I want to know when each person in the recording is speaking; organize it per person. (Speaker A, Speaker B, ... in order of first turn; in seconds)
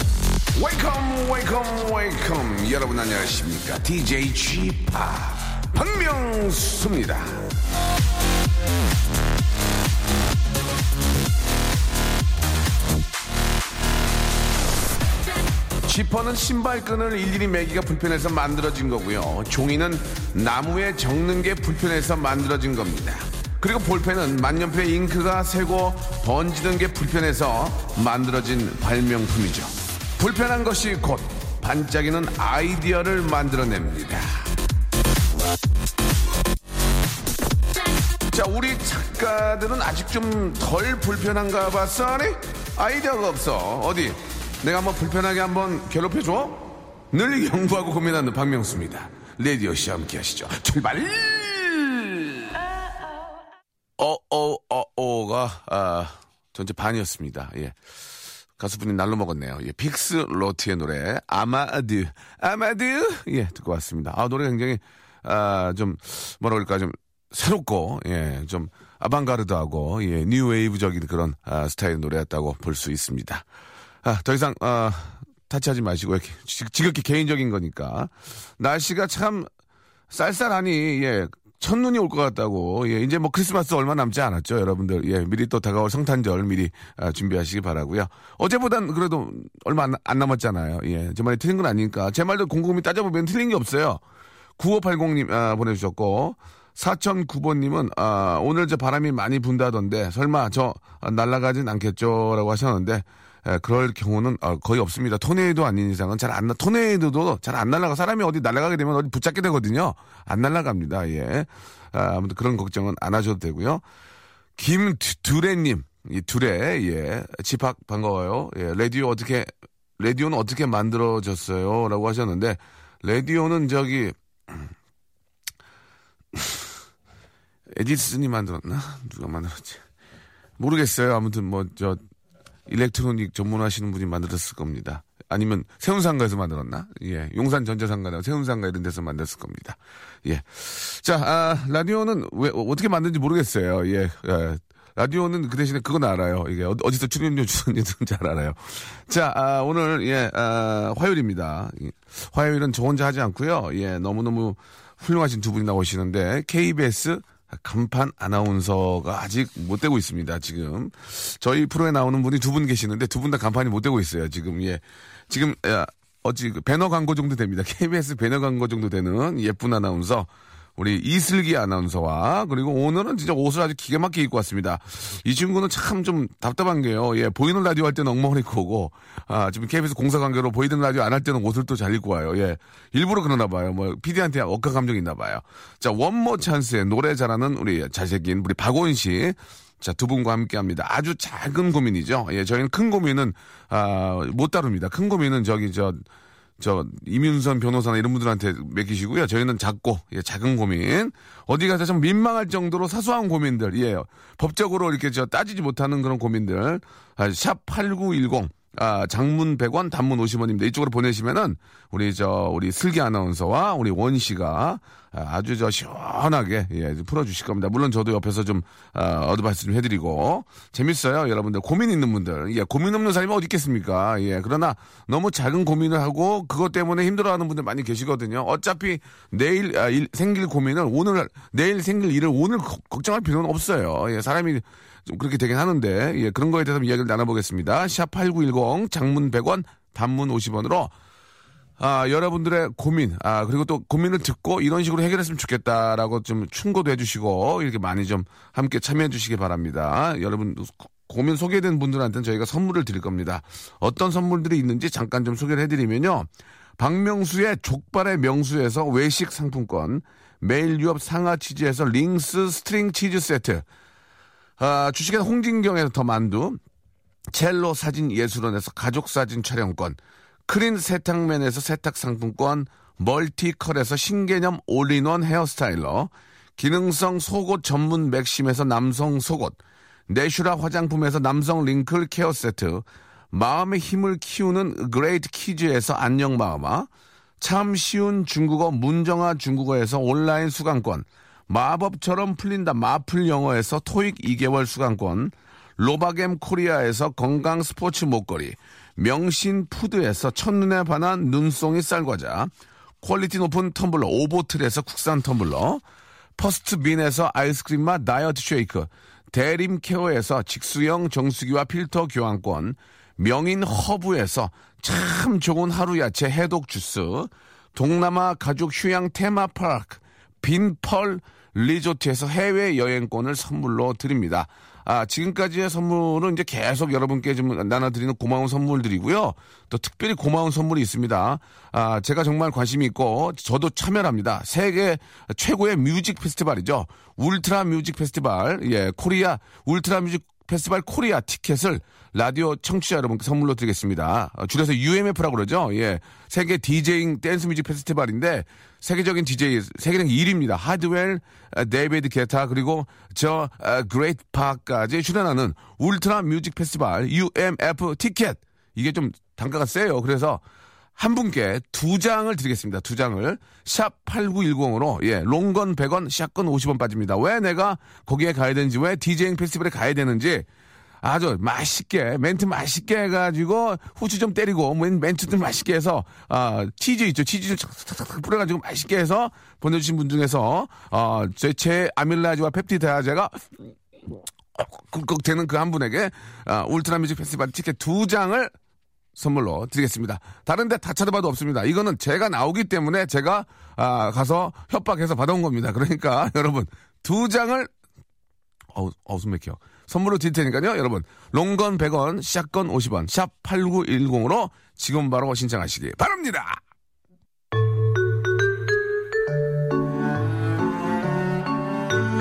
Speaker A: 0.5-7.5, 15.8-34.5, 38.3-52.5, 54.0-57.8, 58.6-73.5, 74.0-79.5, 80.1-94.0, 94.6-113.8, 114.6-124.7, 126.3-126.7, 127.7-129.8, 130.6-132.0, 132.7-196.1, 196.6-240.9, 241.8-263.6, 264.6-266.6, 267.3-286.9, 287.4-302.5, 303.0-305.8, 306.4-360.4, 361.0-370.5, 371.0-388.5, 389.1-397.7, 398.7-406.6